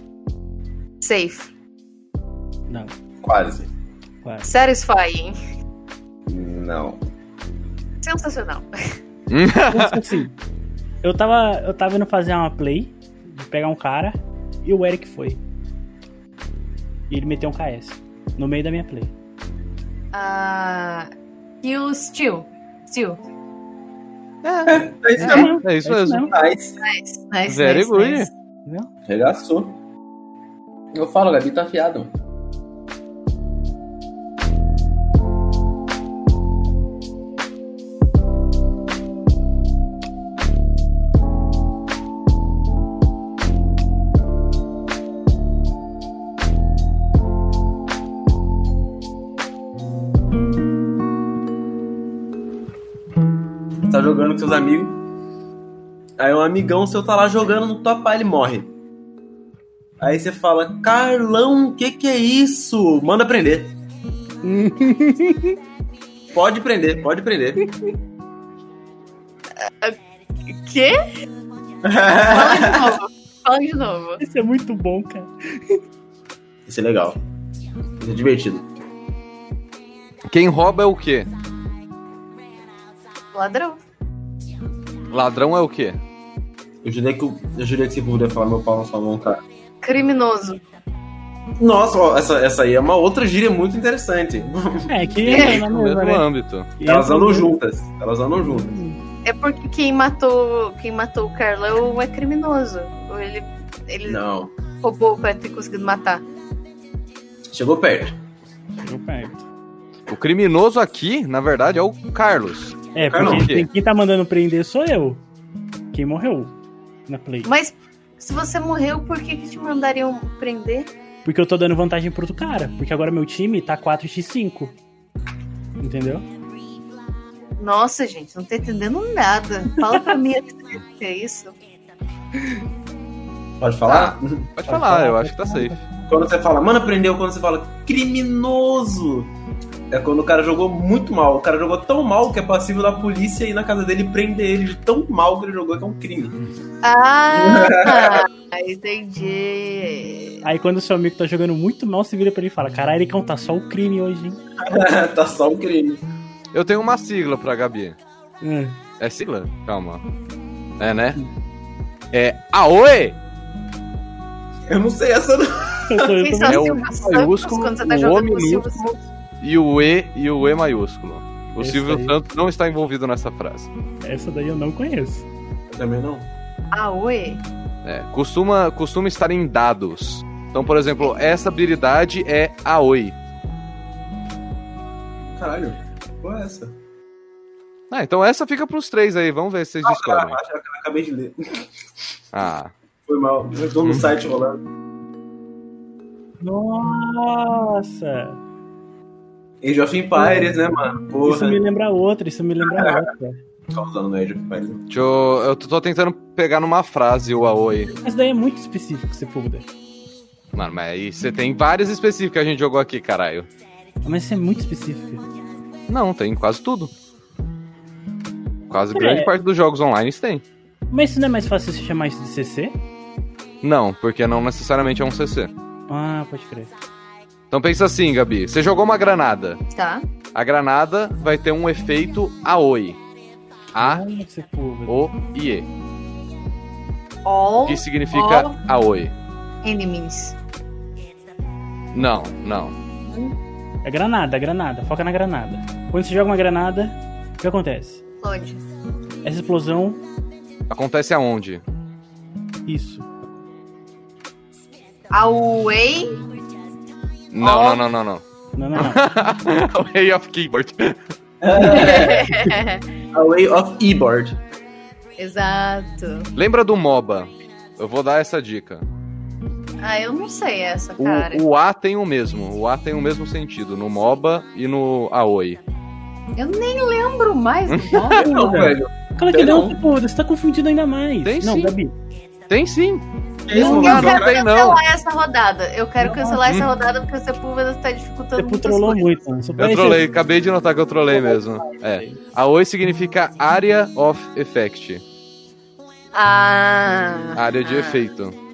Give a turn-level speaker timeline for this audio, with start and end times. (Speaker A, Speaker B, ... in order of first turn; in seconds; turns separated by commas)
Speaker A: 1.0-1.5, Speaker B: 3.2-3.7, Speaker A: 4.4-5.4, Speaker B: 6.3-7.0, Speaker A: 8.0-8.7, Speaker C: 9.3-10.0, Speaker D: 9.7-10.3, Speaker D: 11.0-15.4, Speaker D: 17.1-19.1, Speaker A: 20.1-21.1, Speaker A: 21.6-23.2, Speaker C: 24.4-26.3, Speaker B: 24.7-25.5, Speaker D: 25.2-26.3, Speaker B: 26.3-26.8, Speaker A: 26.8-28.3, Speaker C: 27.5-28.3, Speaker B: 29.1-29.8, Speaker B: 30.9-32.1, Speaker B: 53.8-55.0, Speaker B: 56.2-58.7, Speaker B: 60.0-63.8, Speaker D: 64.4-65.6, Speaker B: 66.3-67.6, Speaker A: 69.6-71.0, Speaker B: 71.8-73.0, Speaker A: 72.2-74.2, Speaker D: 74.2-75.8, Speaker B: 76.7-77.2, Speaker B: 78.0-78.7, Speaker C: 80.3-81.3, Speaker A: 83.3-83.8, Speaker C: 85.1-86.0, Speaker B: 86.8-89.4, Speaker A: 89.8-90.6, Speaker B: 91.6-94.9, Speaker D: 94.9-96.3, Speaker C: 95.2-96.7, Speaker A: 95.3-95.6, Speaker D: 96.8-97.5, Speaker B: 96.8-98.8, Speaker D: 98.4-99.0, Speaker A: 99.2-104.2, Speaker B: 104.1-104.5, Speaker A: 104.8-106.3, Speaker B: 107.5-108.2, Speaker D: 108.8-109.5, Speaker C: 110.1-113.7, Speaker D: 113.0-115.2, Speaker B: 113.1-113.5, Speaker D: 115.9-116.5, Speaker D: 117.1-117.5, Speaker A: 117.5-120.9, Speaker D: 121.2-124.7, Speaker D: 125.8-126.2, Speaker A: 127.6-131.6, Speaker B: 133.6-134.5, Speaker C: 133.9-135.8, Speaker D: 134.7-136.2, Speaker B: 136.1-139.3, Speaker B: 139.9-146.4, Speaker A: 146.8-150.4, Speaker B: 147.3-148.3, Speaker D: 150.4-154.4, Speaker B: 154.6-156.0, Speaker C: 156.5-158.0, Speaker D: 158.4-158.8, Speaker C: 159.0-160.0, Speaker C: 160.8-161.2, Speaker C: 162.1-163.2, Speaker B: 164.7-166.2, Speaker D: 165.9-166.8, Speaker A: 166.2-169.0, Speaker C: 166.5-168.8, Speaker C: 169.4-173.7, Speaker D: 171.6-172.2, Speaker D: 174.0-175.3, Speaker B: 175.7-176.3, Speaker A: 176.7-177.4, Speaker C: 177.8-183.2, Speaker B: 185.4-186.8, Speaker C: 187.9-190.4, Speaker B: 189.8-191.7, Speaker C: 192.3-192.7, Speaker B: 193.1-194.6, Speaker C: 193.8-194.1, Speaker D: 196.4-198.4, Speaker B: 199.6-201.6, Speaker D: 200.2-200.6, Speaker D: 201.2-203.4, Speaker B: 203.7-204.8, Speaker C: 204.9-207.9, Speaker D: 207.9-209.7, Speaker C: 210.5-213.5, Speaker D: 214.0-215.2, Speaker C: 215.9-216.9, Speaker C: 218.7-220.4, Speaker D: 218.9-219.3, Speaker D: 220.9-222.8, Speaker C: 223.6-225.5, Speaker D: 225.9-226.7, Speaker C: 227.5-229.6, Speaker A: 229.7-230.1, Speaker C: 230.3-233.0, Speaker C: 233.7-234.0, Speaker D: 233.8-234.9, Speaker C: 234.9-235.7, Speaker A: 237.2-238.6, Speaker C: 237.7-239.2, Speaker A: 239.6-240.4, Speaker C: 241.9-242.8, Speaker A: 243.1-243.3, Speaker D: 243.8-248.0, Speaker A: 248.2-248.6, Speaker D: 249.2-250.0, Speaker C: 250.7-251.6, Speaker D: 252.7-253.1, Speaker A: 255.1-256.2, Speaker C: 257.3-258.2, Speaker A: 257.4-257.8, Speaker D: 258.6-259.0, Speaker C: 258.8-261.0, Speaker B: 261.4-262.4, Speaker A: 261.6-262.8, Speaker B: 263.1-264.4, Speaker A: 265.2-266.3, Speaker C: 266.4-268.8, Speaker A: 269.8-271.4, Speaker C: 271.0-275.6, Speaker A: 276.4-278.3, Speaker C: 277.7-278.2, Speaker B: 278.1-279.8, Speaker D: 278.2-281.9, Speaker C: 281.2-281.8, Speaker C: 282.5-283.1, Speaker B: 283.4-284.4, Speaker D: 283.6-283.8, Speaker A: 283.6-289.2, Speaker C: 283.6-284.8, Speaker D: 286.0-286.4, Speaker C: 286.4-286.7, Speaker D: 288.4-290.1, Speaker C: 289.6-295.0, Speaker D: 291.1-292.2, Speaker A: 296.1-298.1, Speaker C: 297.4-298.3